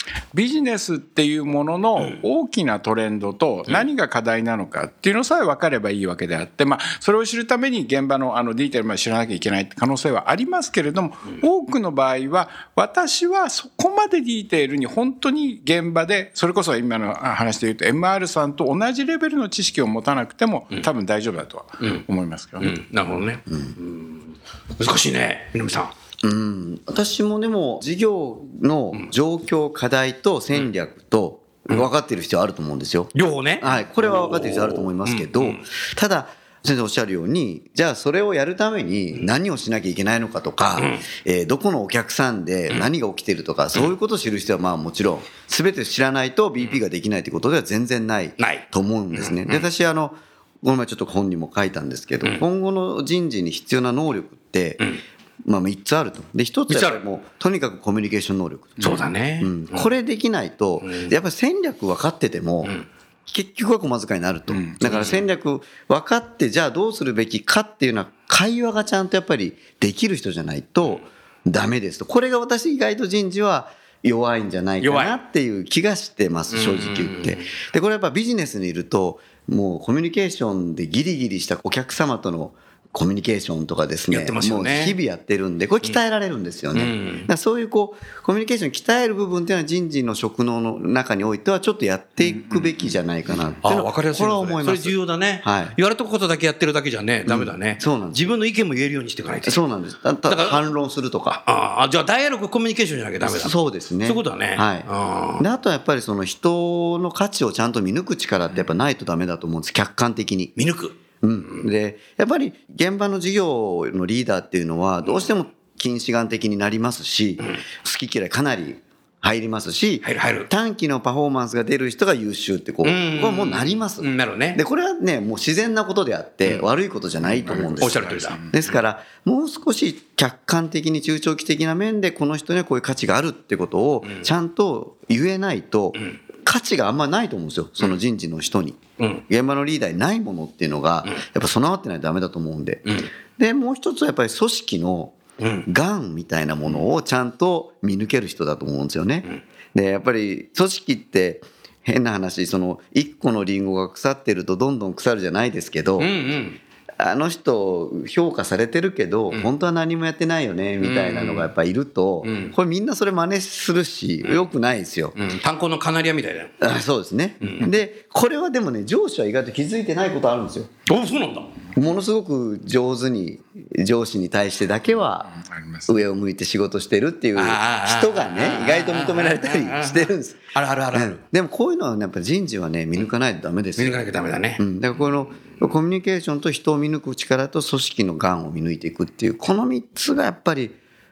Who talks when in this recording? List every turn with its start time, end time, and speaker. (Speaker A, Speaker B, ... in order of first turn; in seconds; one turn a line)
Speaker A: 0.3-22.7
Speaker B: 22.6-25.9
Speaker C: 23.5-23.7
Speaker C: 26.2-54.9
Speaker B: 33.1-35.6
Speaker B: 40.8-41.0
Speaker B: 48.4-48.6
Speaker B: 49.1-49.6
Speaker C: 55.4-62.7
Speaker B: 56.7-57.0
Speaker B: 58.8-59.9
Speaker B: 60.8-61.1
Speaker C: 63.3-95.8
Speaker A: 64.5-64.8
Speaker B: 64.8-65.2
Speaker B: 74.8-75.2
Speaker B: 76.5-77.5
Speaker B: 84.1-85.0
Speaker B: 86.7-87.3
Speaker B: 93.6-99.6
Speaker C: 97.3-98.3
Speaker C: 99.5-101.4
Speaker B: 100.3-100.7
Speaker B: 101.3-105.4
Speaker C: 103.2-104.9
Speaker C: 105.4-110.5
Speaker B: 110.5-111.0
Speaker C: 111.2-156.1
Speaker B: 120.0-120.5
Speaker B: 122.8-124.6
Speaker A: 127.2-128.6
Speaker B: 127.8-128.4
Speaker B: 145.4-145.7
Speaker B: 156.0-156.6
Speaker C: 157.0-165.2
Speaker B: 160.8-161.5
Speaker B: 162.2-162.5
Speaker B: 165.1-166.5
Speaker C: 166.6-170.7
Speaker B: 167.4-167.7
Speaker B: 170.9-171.5
Speaker C: 171.7-175.3
Speaker A: 175.3-176.0
Speaker C: 175.9-184.0
Speaker B: 177.3-181.2
Speaker B: 183.8-184.6
Speaker C: 184.6-190.8